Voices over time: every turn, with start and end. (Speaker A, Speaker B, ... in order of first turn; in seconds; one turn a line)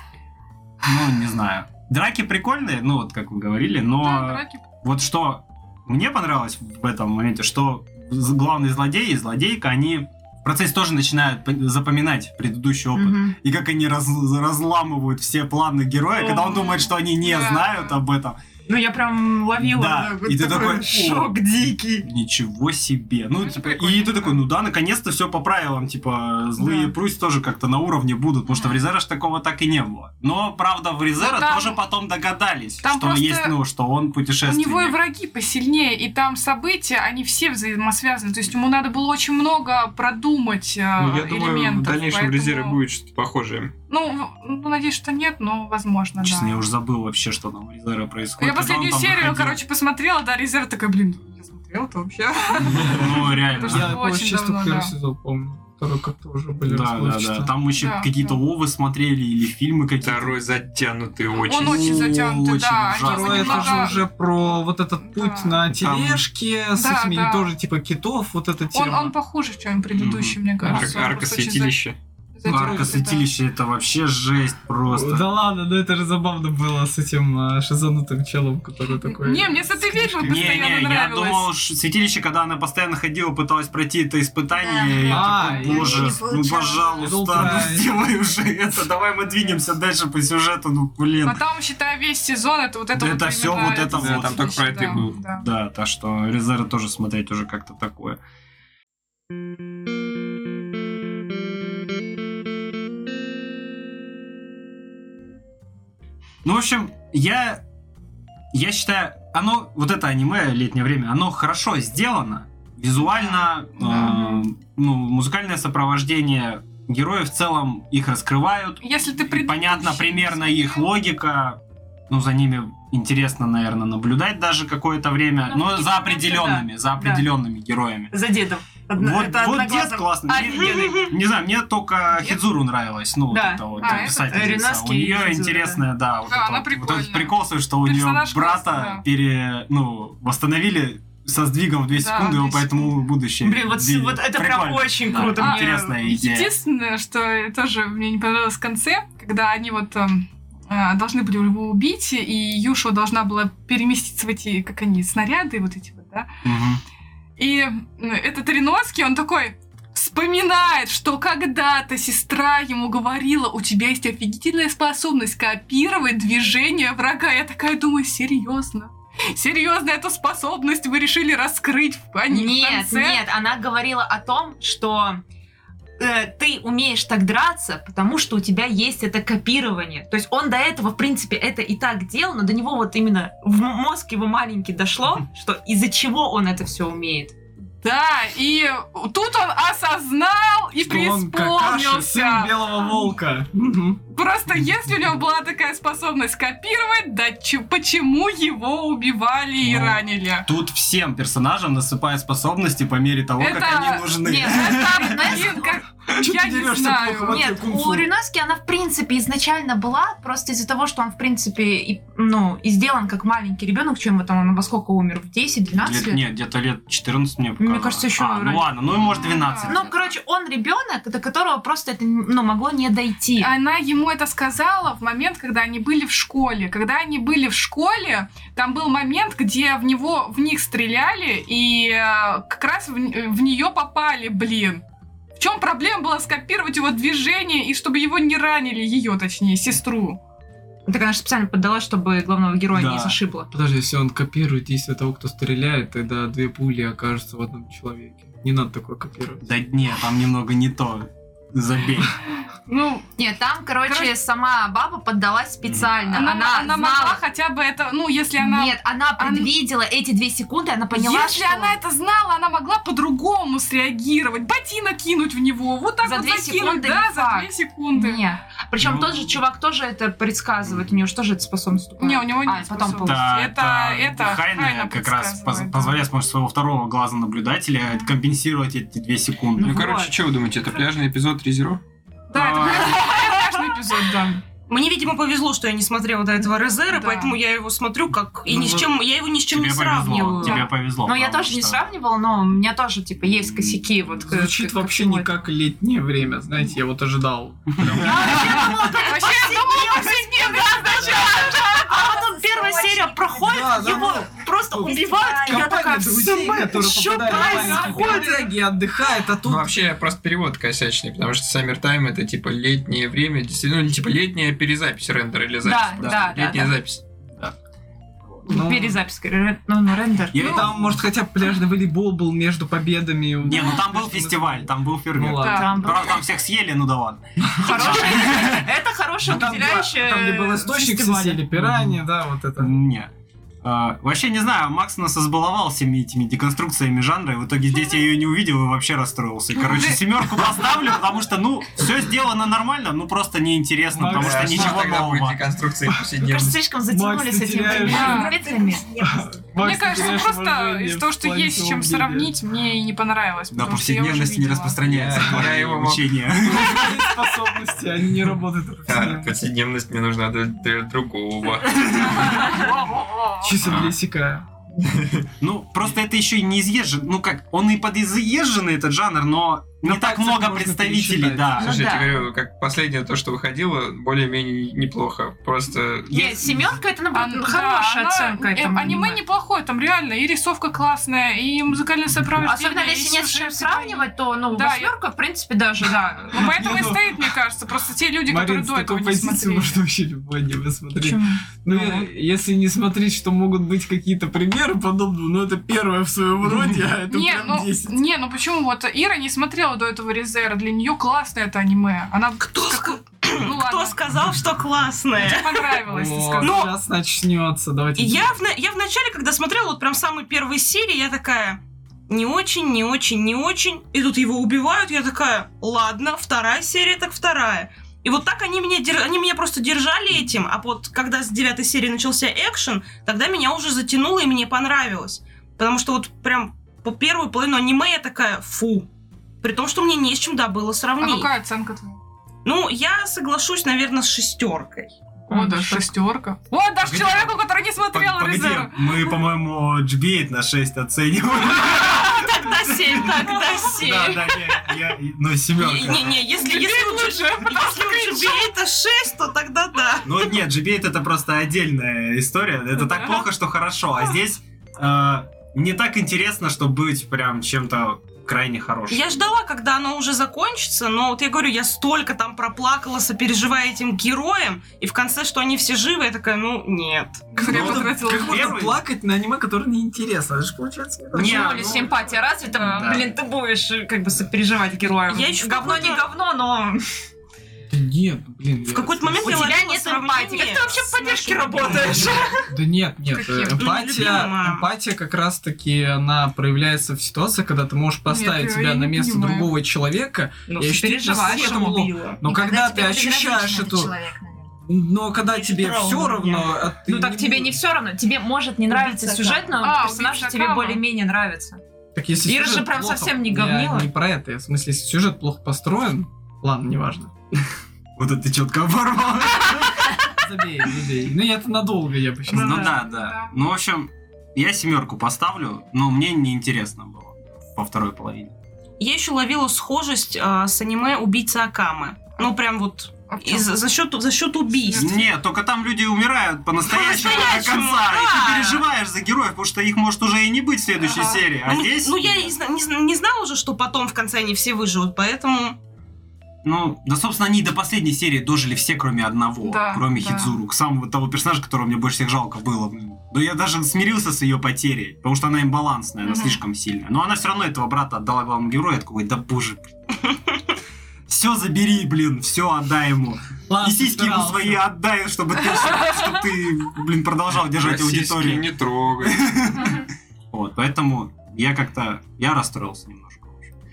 Speaker A: 0.8-18.4
Speaker B: 4.0-4.6
Speaker C: 12.9-13.3
Speaker B: 16.2-18.0
Speaker C: 18.7-22.1
Speaker A: 19.6-21.4
Speaker A: 22.0-35.0
Speaker B: 23.4-24.4
Speaker B: 31.2-31.8
Speaker B: 32.8-33.6
Speaker B: 34.5-42.8
Speaker D: 41.0-43.7
Speaker B: 43.9-46.6
Speaker A: 46.2-49.6
Speaker B: 48.4-54.9
Speaker A: 52.7-54.0
Speaker E: 53.6-57.5
Speaker A: 56.7-60.4
Speaker B: 57.8-58.4
Speaker D: 60.0-62.1
Speaker B: 61.4-64.0
Speaker A: 61.6-64.0
Speaker E: 63.0-69.1
Speaker B: 65.0-65.6
Speaker D: 65.8-66.2
Speaker B: 66.8-67.5
Speaker B: 68.7-71.8
Speaker A: 70.0-70.4
Speaker D: 70.6-72.0
Speaker B: 72.4-73.3
Speaker A: 72.5-75.3
Speaker E: 74.9-80.6
Speaker B: 79.0-81.5
Speaker A: 80.2-91.4
Speaker F: 84.5-87.6
Speaker E: 85.1-86.1
Speaker E: 87.0-87.9
Speaker B: 91.2-95.5
Speaker A: 93.0-98.2
Speaker D: 93.8-95.2
Speaker A: 106.4-107.6
Speaker A: 108.5-121.6
Speaker B: 113.1-114.4
Speaker B: 118.8-120.9
Speaker A: 122.1-128.1
Speaker C: 125.5-127.3
Speaker C: 128.1-131.1
Speaker A: 128.9-146.6
Speaker G: 130.5-130.9
Speaker C: 133.3-135.8
Speaker B: 133.8-134.6
Speaker B: 136.3-139.0
Speaker B: 142.0-142.9
Speaker C: 143.4-146.0
Speaker B: 145.4-156.3
Speaker A: 156.4-156.8
Speaker B: 157.4-173.2
Speaker C: 172.3-175.2
Speaker C: 176.0-187.3
Speaker B: 187.8-193.1
Speaker E: 190.8-194.0
Speaker B: 194.1-200.5
Speaker A: 199.6-205.6
Speaker B: 203.4-207.4
Speaker C: 204.2-205.7
Speaker E: 206.1-208.1
Speaker C: 207.3-216.2
Speaker A: 215.8-220.1
Speaker C: 217.6-218.7
Speaker B: 219.0-219.8
Speaker C: 219.6-223.5
Speaker B: 223.4-234.8
Speaker B: 235.4-240.2
Speaker C: 240.9-243.5
Speaker A: 242.7-243.2
Speaker E: 243.5-249.4
Speaker A: 249.4-252.2
Speaker B: 252.7-253.0
Speaker C: 253.2-257.2
Speaker B: 253.9-254.1
Speaker A: 255.6-255.9
Speaker B: 256.1-259.5
Speaker C: 258.4-261.8
Speaker B: 260.9-268.2
Speaker C: 266.0-273.3
Speaker A: 268.8-269.3
Speaker B: 272.0-276.0
Speaker A: 273.0-279.9
Speaker C: 279.6-280.1
Speaker D: 279.6-281.8
Speaker B: 282.3-284.4
Speaker A: 282.3-283.2
Speaker G: 284.7-290.6
Speaker B: 286.9-287.4
Speaker A: 288.5-288.9
Speaker A: 289.5-291.8
Speaker C: 290.4-295.4
Speaker A: 293.5-293.9
Speaker E: 294.2-298.3
Speaker A: 297.8-298.5
Speaker C: 297.9-308.5
Speaker B: 298.7-301.8
Speaker E: 303.4-309.8
Speaker F: 304.9-305.7
Speaker B: 307.3-308.2
Speaker D: 309.4-317.0
Speaker C: 315.6-316.7
Speaker A: 316.0-316.4
Speaker E: 318.5-319.0
Speaker C: 318.5-320.6
Speaker A: 320.3-321.0
Speaker E: 320.4-325.7
Speaker A: 323.4-328.7
Speaker B: 325.4-325.7
Speaker C: 325.4-326.2
Speaker E: 327.5-327.9
Speaker C: 327.6-331.4
Speaker E: 329.3-332.7
Speaker A: 331.6-332.0
Speaker A: 332.6-333.1
Speaker A: 333.6-345.5
Speaker B: 339.6-340.0
Speaker E: 343.9-344.9
Speaker D: 344.1-346.6
Speaker C: 346.2-348.9
Speaker E: 346.9-348.3
Speaker B: 347.8-348.4
Speaker E: 349.0-352.3
Speaker B: 349.6-354.8
Speaker A: 353.5-357.2
Speaker D: 354.9-356.2
Speaker E: 356.4-359.4
Speaker D: 358.9-362.5
Speaker E: 363.4-364.5
Speaker D: 365.0-365.3
Speaker A: 365.4-371.9
Speaker E: 369.8-371.6
Speaker D: 371.6-376.6
Speaker C: 371.6-372.2
Speaker C: 376.1-379.2
Speaker A: 376.1-376.4
Speaker B: 377.1-384.9
Speaker C: 382.4-386.4
Speaker B: 386.3-389.8
Speaker E: 386.3-387.2
Speaker E: 388.3-397.9
Speaker C: 391.0-392.1
Speaker B: 397.1-404.0
Speaker G: 402.4-405.8
Speaker B: 405.2-406.6
Speaker E: 405.9-408.3
Speaker G: 406.4-406.7
Speaker G: 408.0-428.9
Speaker G: 429.4-431.3
Speaker B: 431.0-432.0
Speaker G: 432.4-435.7
Speaker B: 435.3-439.2
Speaker A: 436.8-437.3
Speaker A: 437.9-446.3
Speaker G: 441.9-444.4
Speaker C: 442.7-444.1
Speaker G: 445.6-450.1
Speaker B: 446.4-448.4
Speaker A: 450.0-459.1
Speaker G: 458.9-467.4
Speaker E: 467.4-471.7
Speaker B: 467.4-468.5
Speaker A: 467.4-468.8
Speaker A: 471.1-471.9
Speaker C: 471.1-476.9
Speaker A: 472.8-473.1
Speaker G: 475.1-476.0
Speaker E: 477.7-479.6
Speaker G: 478.7-482.4
Speaker C: 479.2-482.2
Speaker B: 480.4-482.0
Speaker E: 482.4-493.9
Speaker B: 483.2-483.5
Speaker G: 483.6-484.7
Speaker B: 488.1-489.5
Speaker C: 490.5-492.2
Speaker G: 491.1-492.1
Speaker F: 492.3-494.5
Speaker E: 494.7-497.6
Speaker G: 495.3-496.5
Speaker C: 495.6-496.3
Speaker C: 496.9-501.6
Speaker F: 498.7-499.5
Speaker B: 499.6-500.8
Speaker E: 501.9-507.1
Speaker C: 502.3-503.9
Speaker A: 508.0-510.0
Speaker E: 510.2-512.7
Speaker B: 512.3-513.3
Speaker A: 512.3-518.3
Speaker G: 518.8-525.1
Speaker B: 523.1-523.5
Speaker B: 524.6-525.0
Speaker A: 524.8-532.4
Speaker G: 526.6-528.6
Speaker B: 530.8-531.2
Speaker G: 531.5-535.6
Speaker A: 536.4-549.7
Speaker B: 539.4-540.4
Speaker B: 546.0-546.4
Speaker A: 551.1-558.5
Speaker E: 553.5-554.6
Speaker D: 557.5-559.6
Speaker A: 559.0-563.5